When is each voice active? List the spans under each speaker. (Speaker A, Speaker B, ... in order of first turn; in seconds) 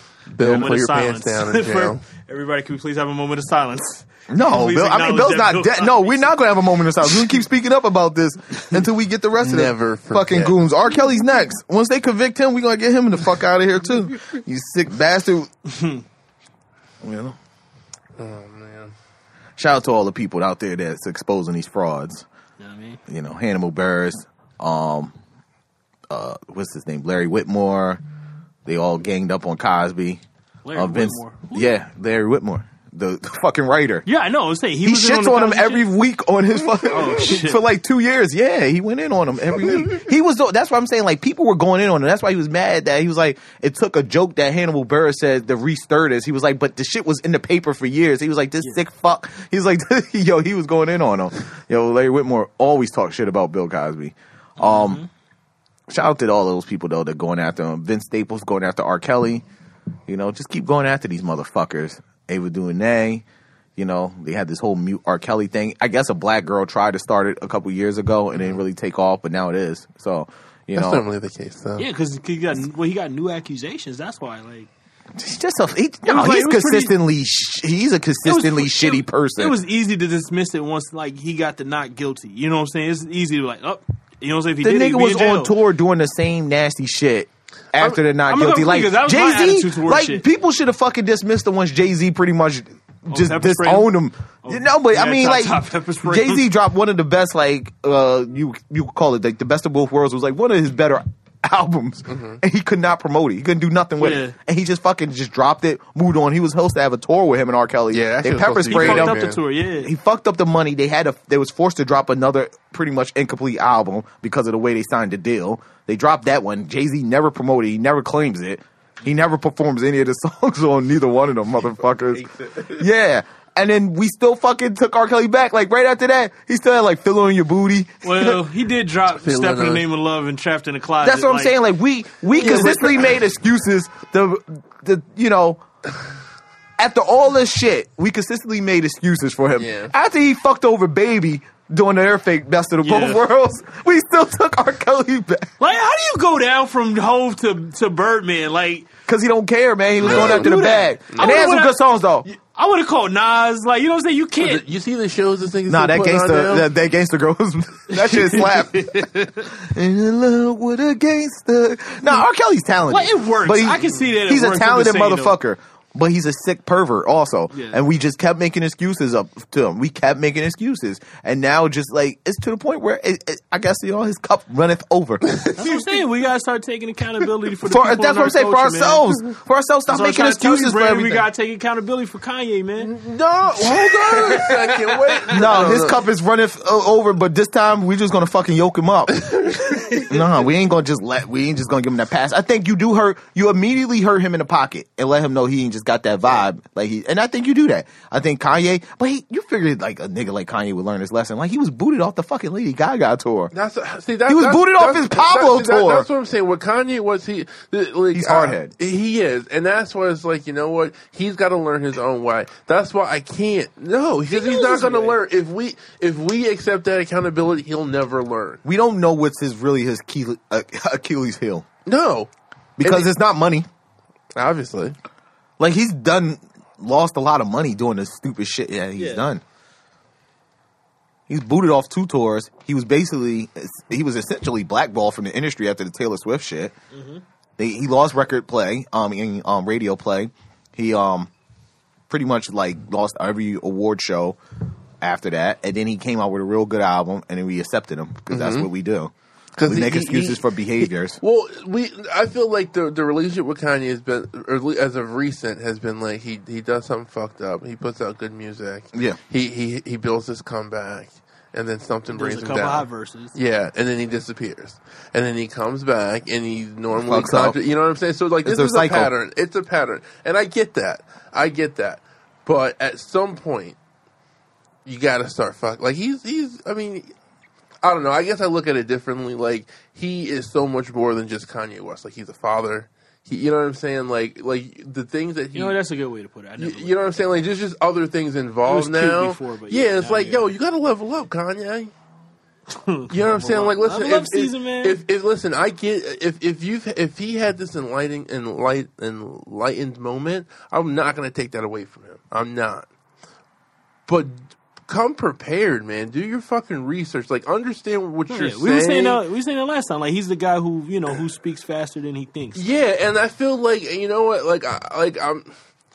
Speaker A: 0.3-2.0, 9.4-10.6, 18.2-18.9, 70.7-71.9, 102.1-102.4, 107.9-109.4, 121.8-122.9, 129.1-129.8, 132.4-133.1, 139.6-139.9, 150.0-151.4, 154.4-156.7, 175.2-176.0, 182.8-186.0, 189.1-190.2, 203.5-218.6, 221.8-223.1, 224.3-224.9, 248.3-248.7, 249.6-273.8, 274.8-277.1, 277.8-285.8, 286.6-291.9, 293.1-302.9, 304.1-309.2, 312.5-315.5
Speaker B: 0.4-6.4, 15.7-16.0, 22.6-23.0, 30.6-31.7, 34.0-35.9, 36.8-37.6, 54.6-55.1, 71.8-74.7, 76.0-77.0, 78.2-85.5, 88.2-90.2, 93.1-96.5, 104.0-104.3, 108.7-109.9, 128.0-131.6, 132.3-133.1, 142.8-143.2, 145.6-148.9, 150.0-154.7, 157.9-159.5, 162.9-165.4, 167.5-167.8, 175.6-179.1, 179.9-182.9, 184.0-184.5, 189.6-190.0, 214.3-215.2, 229.0-229.3, 236.9-237.2, 262.1-263.3, 285.5-287.0, 288.6-290.5, 292.7-295.0, 308.3-312.7
Speaker C: 4.3-15.5, 17.0-17.4, 19.6-22.2, 23.1-25.1, 26.1-28.0, 28.6-30.2, 30.7-34.0, 34.8-55.0, 55.9-59.4, 60.1-63.2, 63.8-71.0, 75.1-79.6, 84.6-109.2, 109.8-128.4, 131.0-135.6, 136.8-145.5, 149.1-152.3, 155.7-175.2, 177.6-181.3, 185.3-189.4, 189.9-203.5, 204.3-206.1, 208.1-208.7, 218.6-221.7, 222.8-223.7, 225.6-229.4, 231.3-236.7, 237.6-241.3, 242.1-244.4, 245.0-249.1, 249.6-251.2, 258.9-259.2, 266.9-267.6, 268.4-269.1